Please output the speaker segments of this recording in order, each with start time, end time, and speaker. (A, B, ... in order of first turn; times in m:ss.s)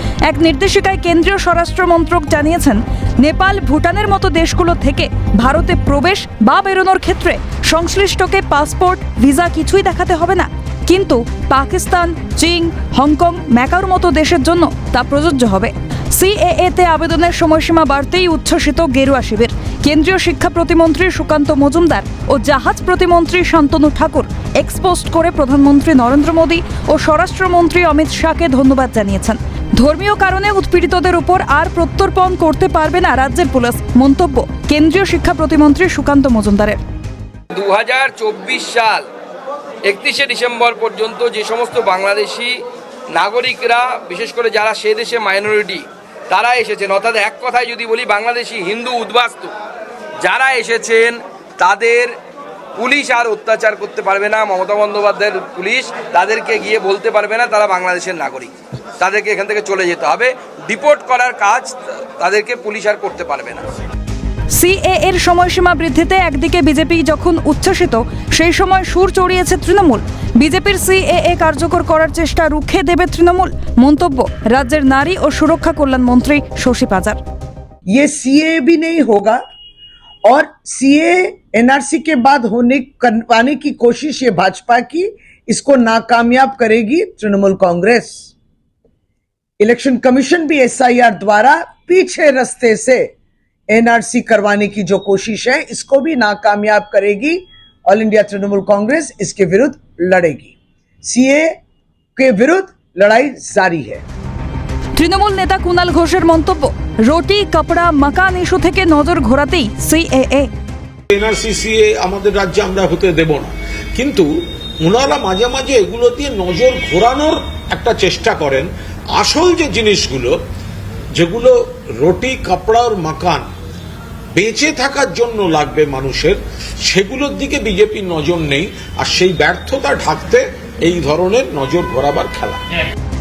0:00.2-0:36.8 A
0:37.5-0:39.0 B
0:39.8-0:42.6 B
0:43.1-0:49.5 B
0:50.2-0:52.2 B
0:52.8-1:03.6 B
1:04.5-1:17.2 A
1:17.9-1:19.4 C
1:20.2-1:28.3 C
1:29.6-1:33.1 C
1:33.7-1:41.5 C
1:42.2-1:44.0 C
1:45.0-1:50.5 A
1:51.1-1:54.2 D
1:54.8-2:00.4 D
2:01.1-2:03.4 D
2:04.3-2:12.6 D